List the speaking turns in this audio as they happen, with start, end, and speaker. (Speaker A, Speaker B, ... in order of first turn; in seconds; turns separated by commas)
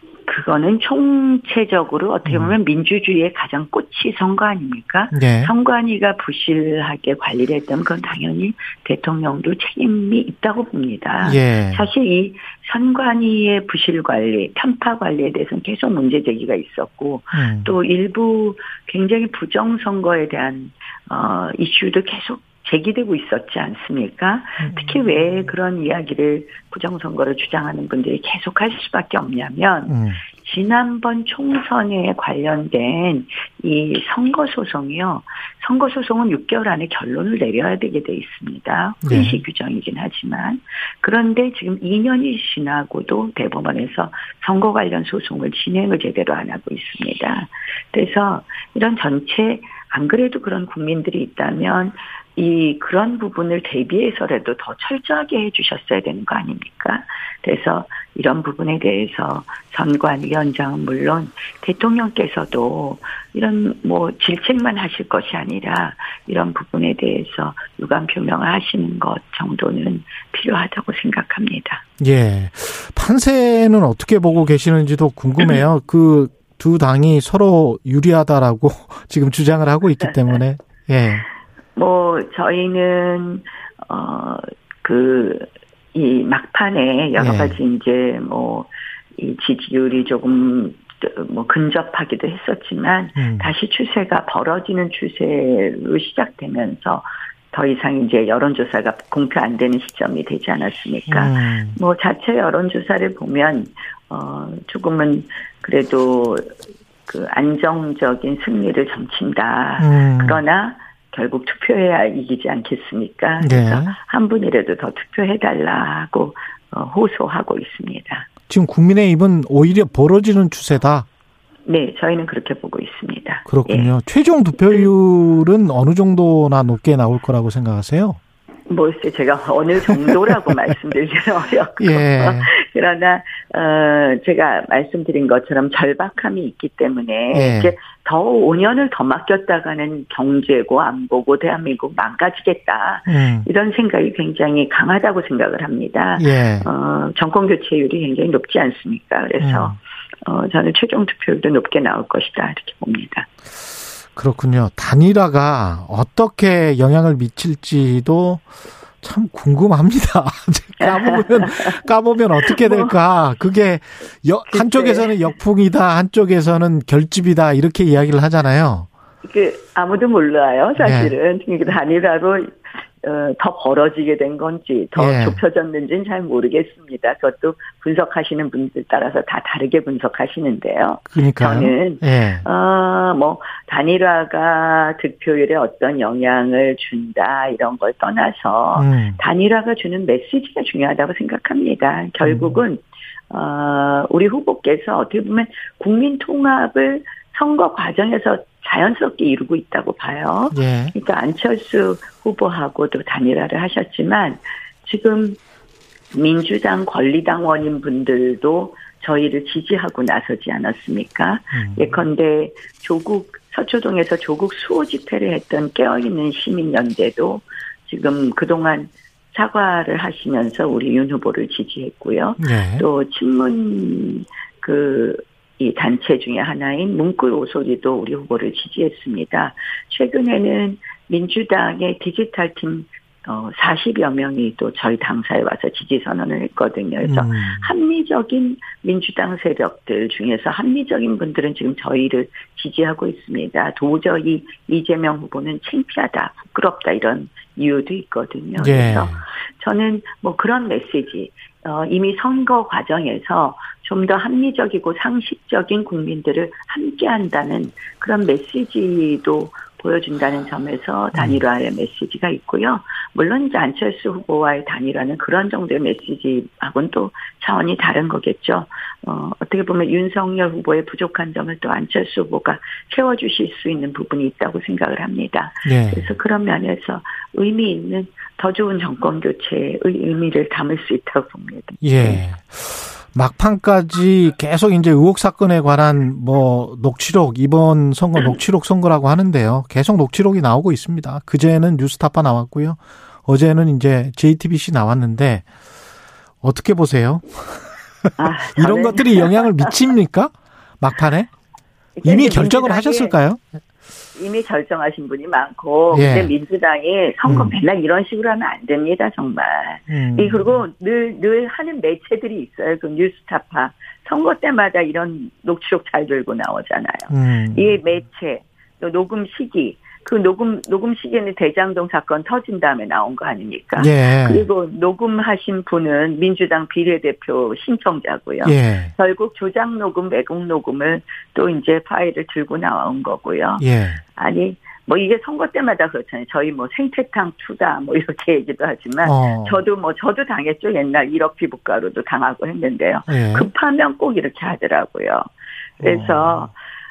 Speaker A: 0.3-71.8, Speaker B: 2.2-2.5, Speaker B: 5.1-5.5, Speaker B: 11.2-11.9, Speaker B: 17.3-17.7, Speaker B: 24.6-25.1, Speaker B: 29.9-30.2, Speaker B: 39.0-39.4, Speaker B: 72.0-81.2, Speaker A: 81.8-106.5, Speaker B: 87.2-87.6, Speaker B: 93.2-93.5, Speaker B: 101.1-101.8, Speaker A: 107.1-118.3, Speaker B: 109.8-110.4, Speaker B: 113.4-114.0, Speaker B: 118.5-121.1, Speaker A: 121.7-123.9, Speaker B: 123.5-128.2, Speaker A: 128.7-153.3, Speaker B: 131.8-132.5, Speaker B: 137.3-137.7, Speaker B: 143.1-143.5, Speaker B: 146.2-146.7, Speaker B: 149.4-149.8, Speaker B: 154.2-158.4, Speaker B: 159.0-168.9, Speaker A: 160.8-161.7, Speaker A: 162.4-162.9, Speaker A: 164.5-165.2, Speaker A: 169.2-205.4, Speaker B: 170.8-171.1, Speaker B: 174.9-175.4, Speaker B: 181.1-182.4, Speaker B: 188.7-189.2, Speaker B: 192.2-192.6, Speaker B: 200.5-200.9, Speaker A: 206.1-282.2, Speaker B: 211.5-212.0, Speaker B: 222.4-222.8, Speaker B: 237.0-237.7, Speaker B: 248.6-249.2, Speaker B: 261.1-261.4, Speaker B: 275.6-276.1, Speaker B: 281.8-295.4, Speaker B: 296.4-297.6, Speaker A: 298.2-299.8, Speaker B: 298.5-301.3, Speaker A: 302.0-303.2, Speaker B: 302.0-303.4, Speaker A: 304.2-333.6, Speaker B: 305.9-306.3, Speaker B: 307.2-307.6, Speaker B: 309.9-310.6, Speaker B: 317.1-317.7, Speaker B: 323.8-324.4, Speaker B: 328.4-328.9, Speaker B: 333.6-334.0, Speaker A: 334.2-345.2, Speaker B: 339.0-339.6, Speaker B: 343.1-343.5, Speaker A: 345.8-346.5, Speaker B: 345.8-346.5